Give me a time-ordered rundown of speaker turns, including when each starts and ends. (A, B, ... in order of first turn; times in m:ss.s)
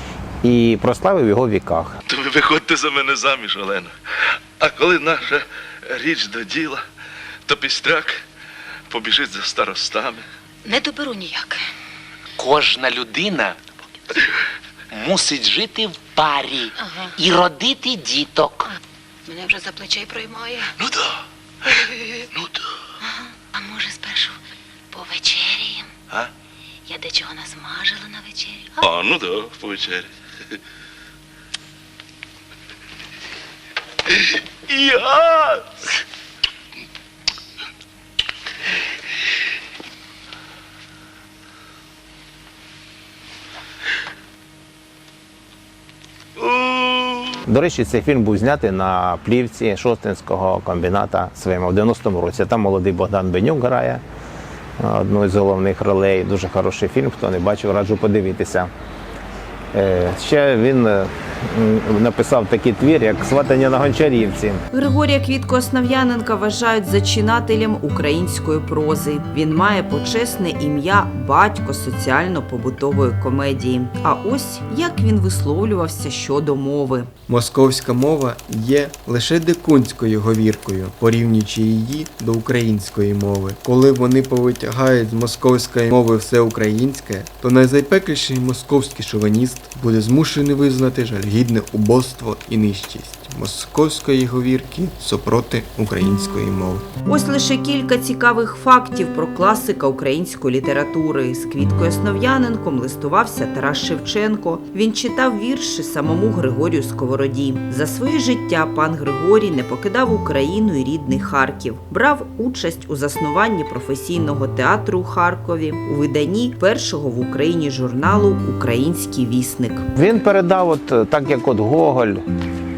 0:00.4-0:02.0 A
0:02.1-0:03.9 B
0:04.6-0:06.8 B
0:07.5-0:08.2 B
0:08.9-0:10.2 B
0:10.6-0:11.6 C
0:12.4-0:13.6 D
0:14.9-0:18.7 D
0:19.3-0:20.7 C
0:21.8-0:22.2 C
0:23.0-0:24.4 C
0:24.9-0:25.9 C
0:26.9-0:28.8 C
0:28.8-0:30.1 B
0:34.1-0:35.7 B
0:47.4-0:54.0 A
0:54.8-0:58.7 A
0:59.7-1:04.6 A
1:04.7-1:17.1 E
1:17.3-1:36.8 F
1:37.0-1:59.9 E
2:00.0-2:02.2 A